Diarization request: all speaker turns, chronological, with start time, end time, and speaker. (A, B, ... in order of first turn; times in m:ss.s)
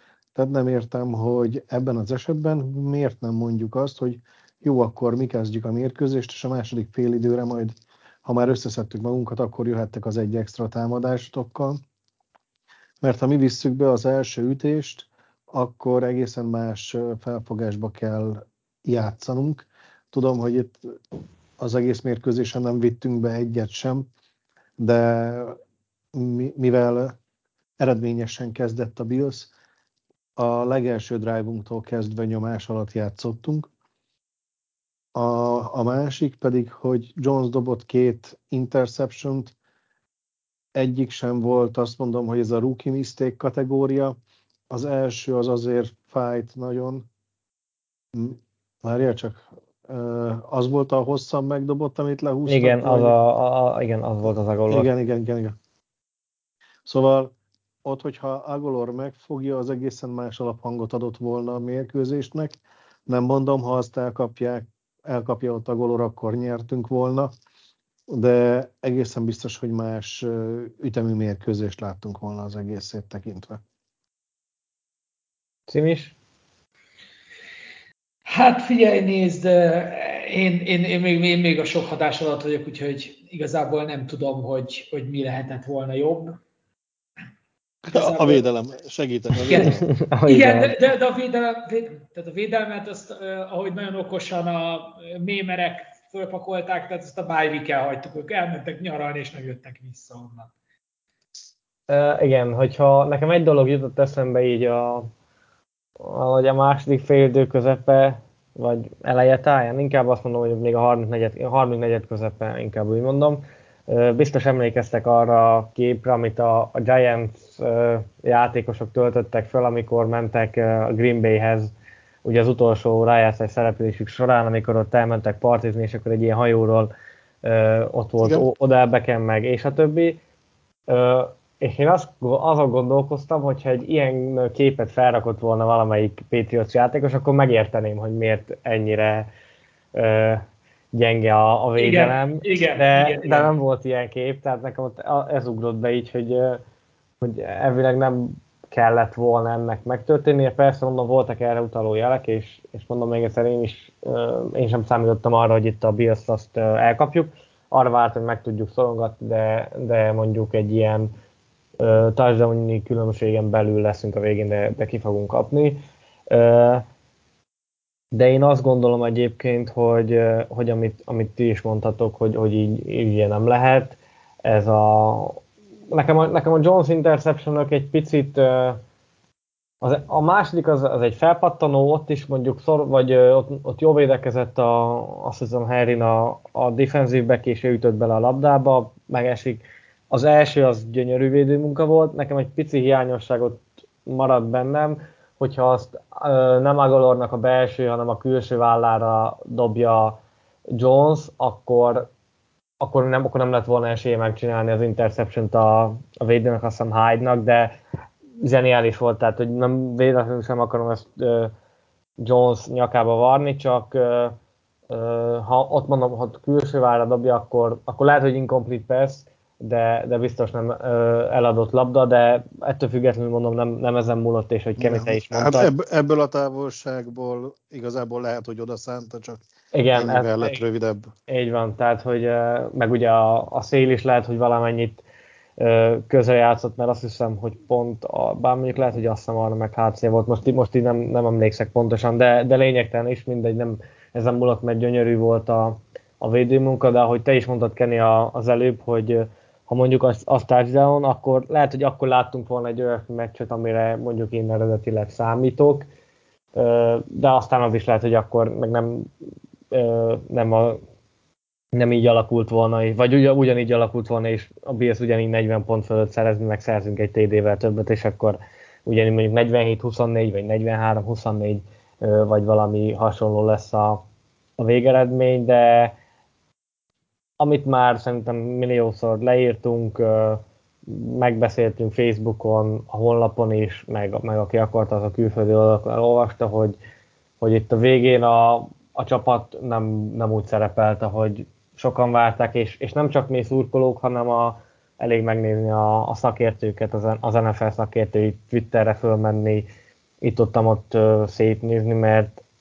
0:00.4-0:07.7 A
0:08.2-0:11.8 A
0:13.0-0:20.9 A
0:21.6-0:24.1 A
0:24.8-0:25.6 A
0:26.1-0:27.2 A
0:27.8-0:29.5 A
0:30.4-0:33.7 A
0:35.2-0:39.5 A
0:40.8-0:44.2 A
0:44.7-0:47.1 A
0:48.1-0:53.2 A
0:52.5-0:54.9 B
0:54.7-0:55.6 A
0:56.9-0:57.3 A
0:57.8-1:07.3 A
1:08.1-1:13.6 A
1:15.7-1:16.2 B
1:18.3-1:26.4 C
1:27.9-1:28.4 C
1:27.9-1:29.8 A
1:29.4-1:29.8 C
1:29.6-1:30.8 B
1:30.2-1:40.5 C
1:41.9-1:45.1 B
1:46.0-2:01.7 B
2:02.2-2:06.9 B
2:07.4-2:10.2 B
2:10.9-2:19.3 B
2:19.9-2:26.6 B
2:21.8-2:23.5 C
2:27.2-2:41.1 B
2:41.8-2:46.8 B
2:48.1-2:55.4 B
2:55.9-2:58.8 B
2:59.8-3:20.2 B
3:20.7-3:22.1 B
3:22.8-3:27.8 B
3:28.4-3:31.5 B
3:32.2-3:34.3 B
3:34.9-3:45.7 B
3:44.8-3:49.4 A
3:49.7-3:50.6 B
3:49.9-3:51.1 A
3:51.3-3:55.0 B
3:55.6-4:15.9 B
4:16.6-4:19.1 B
4:19.7-4:20.8 B
4:21.7-4:34.0 B
4:34.6-4:35.9 B
4:37.4-4:46.8 B
4:47.4-4:59.7 B
5:00.2-5:02.4 B